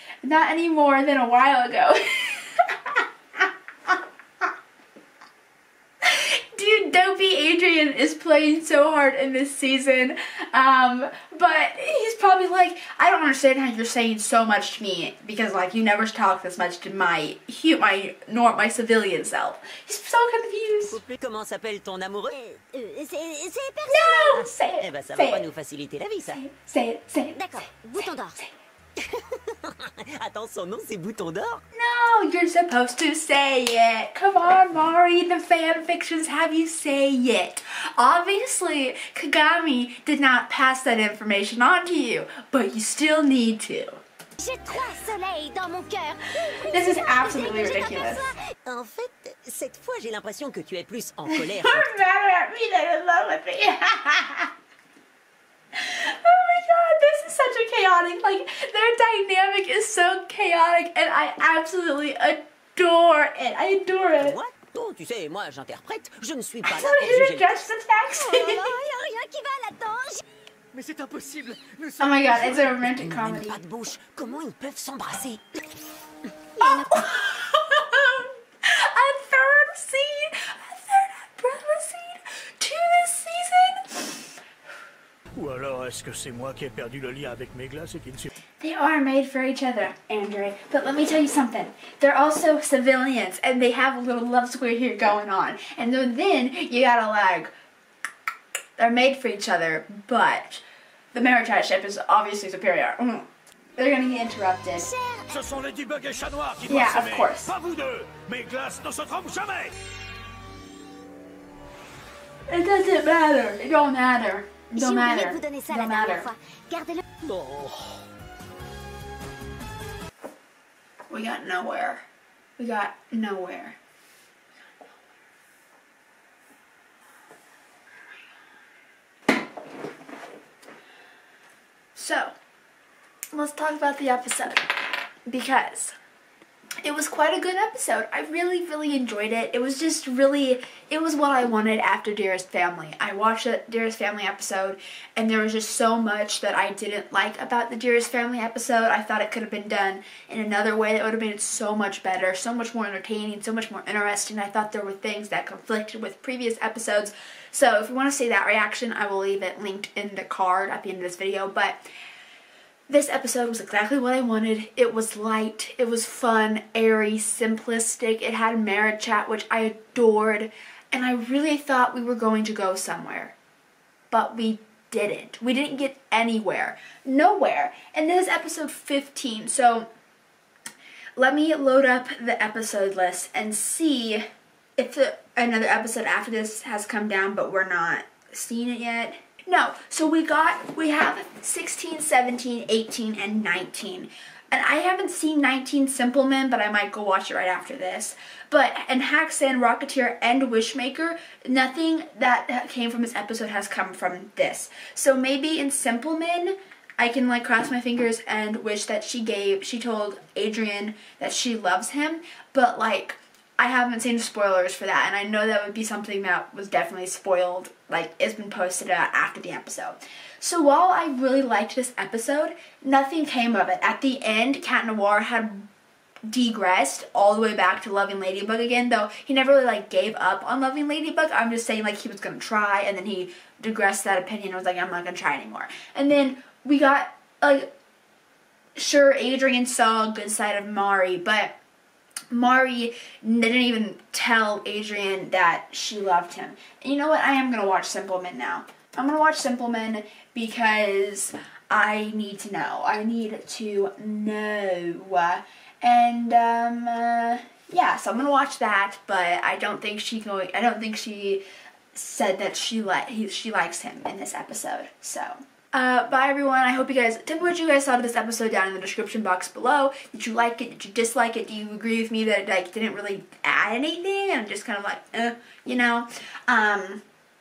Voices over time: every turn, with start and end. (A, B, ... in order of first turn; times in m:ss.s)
0:00.2-0:04.5 A
0:06.0-0:21.0 A
0:20.9-0:22.4 B
0:22.3-0:24.4 C
0:23.9-0:25.5 A
0:24.4-0:26.4 B
0:26.3-0:28.5 A
0:27.3-0:28.4 C
0:29.0-0:31.6 B
0:31.7-0:44.0 A
0:44.4-0:48.5 C
0:46.4-0:48.3 A
0:48.6-0:51.9 B
0:51.3-0:54.5 A
0:55.7-1:04.4 A
1:04.2-1:07.6 B
1:06.6-1:08.7 A
1:08.1-1:10.2 C
1:10.8-1:11.6 B
1:12.0-1:13.6 A
1:12.4-1:15.6 B
1:16.6-1:24.4 A
1:16.6-1:16.9 C
1:25.4-1:28.3 D
1:28.6-1:37.5 A
1:38.8-1:40.6 A
1:41.1-1:44.9 A
1:44.8-1:45.3 C
1:45.3-1:49.8 D
1:46.7-1:47.5 A
1:52.5-1:56.3 A
1:54.8-1:57.0 C
1:57.2-1:58.0 D
2:01.1-2:02.0 A
2:02.6-2:03.8 A
2:12.0-2:12.3 A
2:13.3-2:16.0 A
2:16.8-2:41.8 A
2:42.9-2:53.4 A
2:54.1-2:59.9 A
3:01.2-3:04.2 A
3:04.8-3:45.7 A
3:46.3-3:57.7 A
3:58.8-4:01.6 A
4:02.3-4:37.0 A